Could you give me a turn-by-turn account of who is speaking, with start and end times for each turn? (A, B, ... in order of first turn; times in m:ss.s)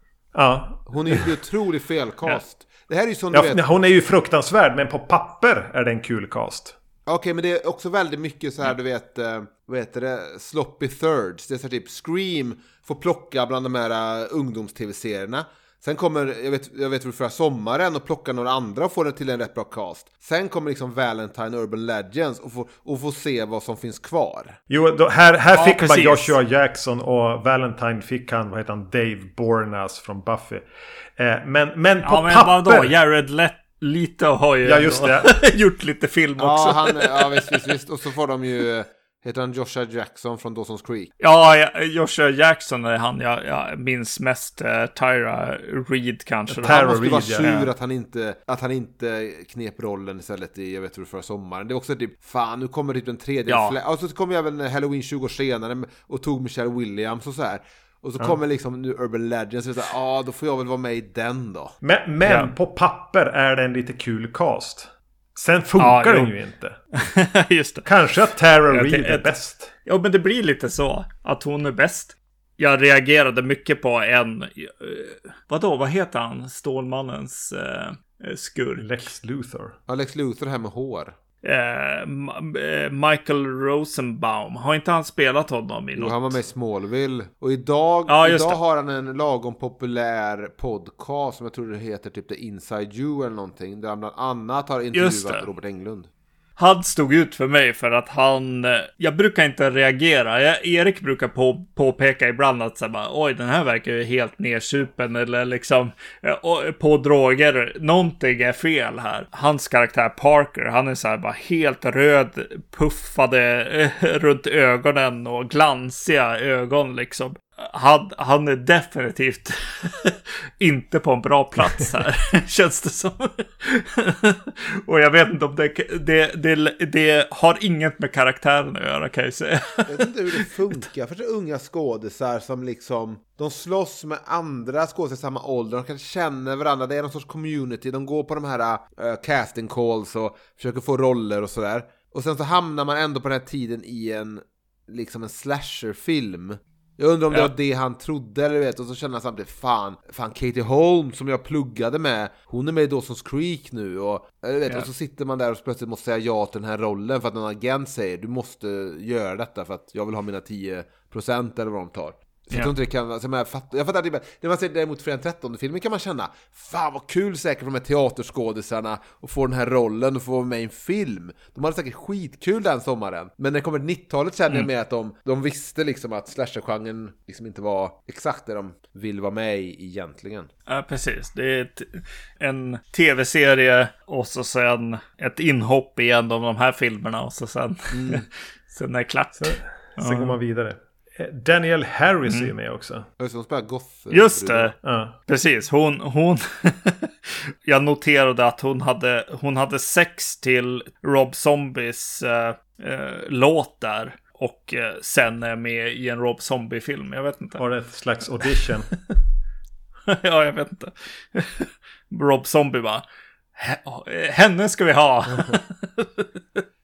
0:00.4-0:01.3 A
0:00.9-0:03.6 B
0:03.3-0:06.7 A
0:07.1-0:24.6 B
0:24.7-0:30.7 A
0:25.5-0:26.4 C
0:31.2-0:32.9 A
0:32.0-0:37.7 C
0:34.6-0:35.4 A
0:36.4-0:41.1 B
0:41.2-0:46.8 C
0:46.5-0:47.5 A
0:46.6-1:01.8 B
0:47.4-0:47.7 C
0:53.5-0:53.8 C
1:01.8-1:06.8 A
1:02.2-1:02.5 C
1:05.8-1:06.3 C
1:06.9-1:07.9 C
1:07.8-1:09.7 A
1:08.7-1:18.9 C
1:18.8-1:19.8 A
1:19.9-1:21.1 B
1:21.4-1:26.4 C
1:26.0-1:36.1 B
1:28.1-1:28.6 C
1:34.9-1:35.5 C
1:36.6-2:10.5 C
2:09.9-3:00.5 B
3:00.7-3:10.4 C
3:07.9-3:08.2 B
3:09.4-3:13.1 A
3:12.3-3:12.5 C
3:13.2-3:14.7 B
3:14.1-3:14.8 C
3:14.8-3:15.2 A
3:15.3-3:27.6 C
3:27.6-3:28.9 A
3:28.7-3:29.2 C
3:30.1-3:33.0 C
3:33.6-3:36.3 C